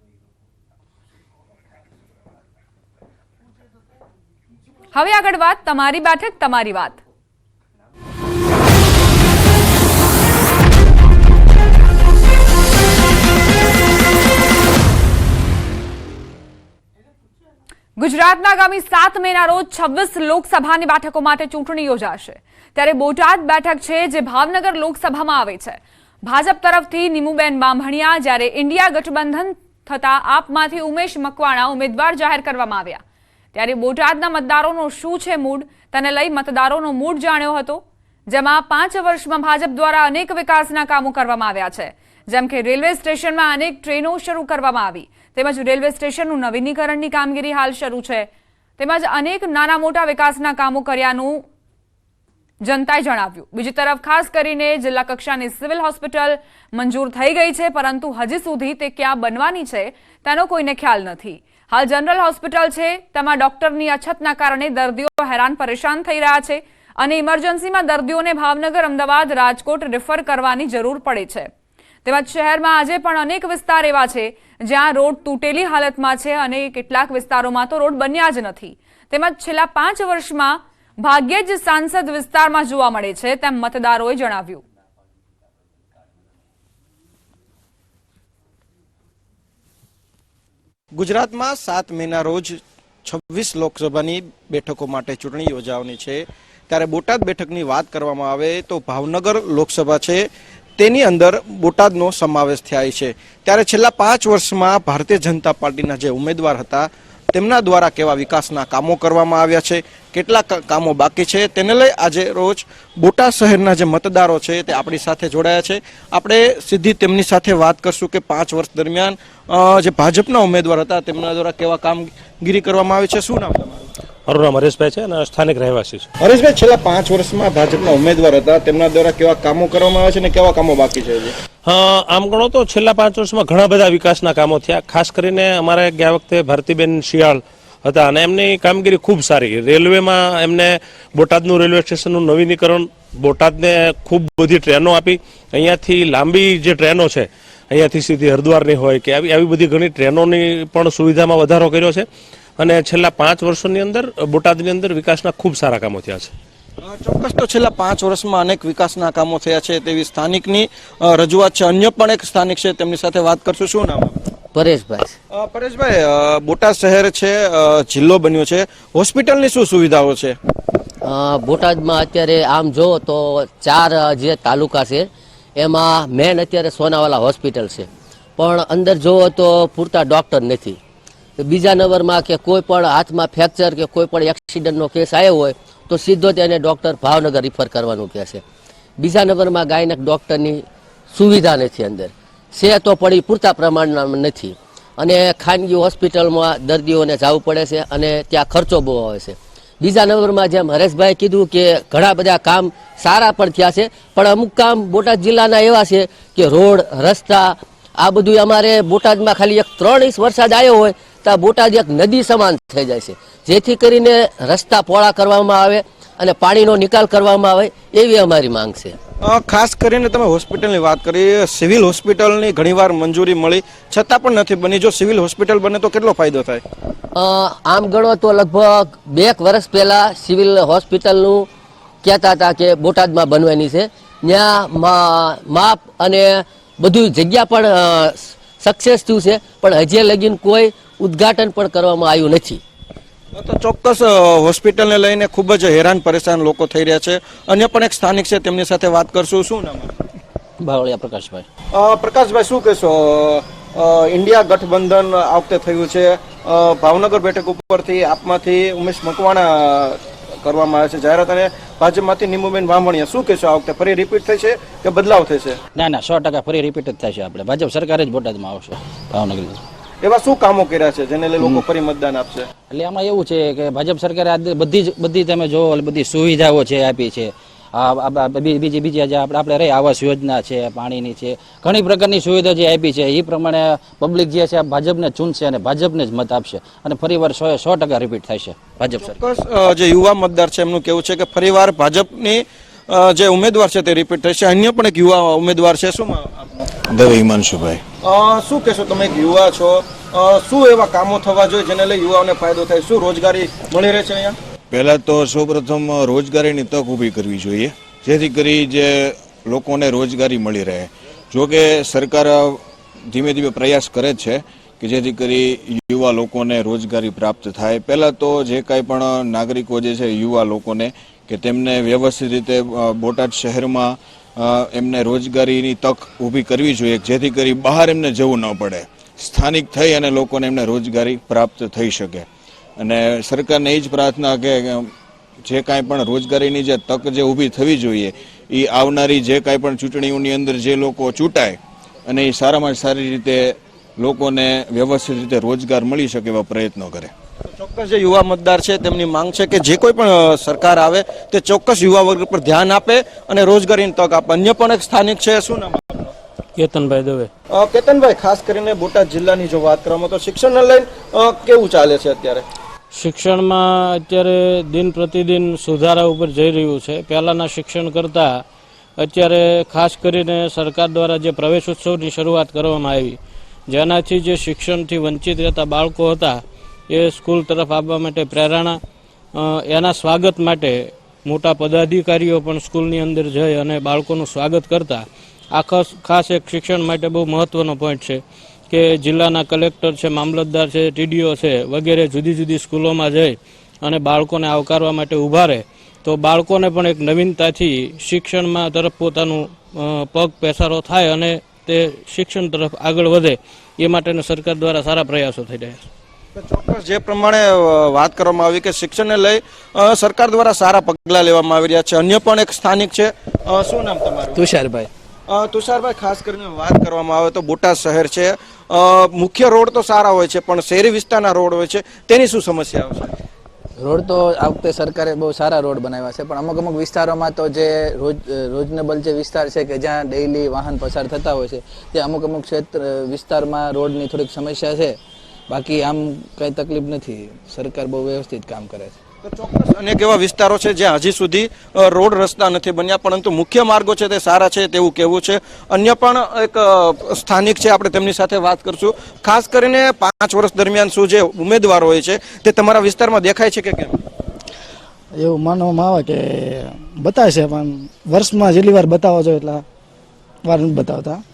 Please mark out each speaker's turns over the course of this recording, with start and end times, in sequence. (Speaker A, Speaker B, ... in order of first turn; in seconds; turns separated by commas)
Speaker A: 4.9-7.0, Speaker A: 18.0-33.0, Speaker A: 33.5-51.4, Speaker A: 52.6-71.5, Speaker A: 72.0-84.6, Speaker B: 90.9-100.3, Speaker B: 100.8-123.9, Speaker C: 124.3-126.1, Speaker B: 126.2-131.3, Speaker C: 131.7-152.1, Speaker C: 152.6-156.3, Speaker B: 156.8-164.2, Speaker D: 164.5-165.2, Speaker B: 165.3-170.4, Speaker D: 171.0-180.8, Speaker D: 181.4-188.4, Speaker D: 189.0-219.0, Speaker B: 219.2-226.6, Speaker D: 227.2-231.5, Speaker D: 232.0-242.6, Speaker B: 243.3-249.9, Speaker E: 250.7-251.4, Speaker B: 251.7-265.6, Speaker E: 265.8-269.6, Speaker B: 270.0-272.5, Speaker E: 272.7-289.1, Speaker B: 288.9-296.6, Speaker F: 296.9-297.8, Speaker B: 298.0-304.4, Speaker F: 304.7-332.3, Speaker F: 332.8-334.9, Speaker F: 335.4-347.1, Speaker B: 347.5-356.1, Speaker G: 356.6-357.3, Speaker B: 357.5-362.5, Speaker G: 362.9-368.4, Speaker G: 369.0-373.2, Speaker G: 373.7-378.8, Speaker G: 379.3-405.8, Speaker B: 406.4-414.5, Speaker H: 414.4-414.9, Speaker B: 415.3-423.1, Speaker H: 423.8-435.0, Speaker H: 435.5-439.0, Speaker B: 439.2-454.0, Speaker I: 455.2-459.6, Speaker I: 460.4-461.2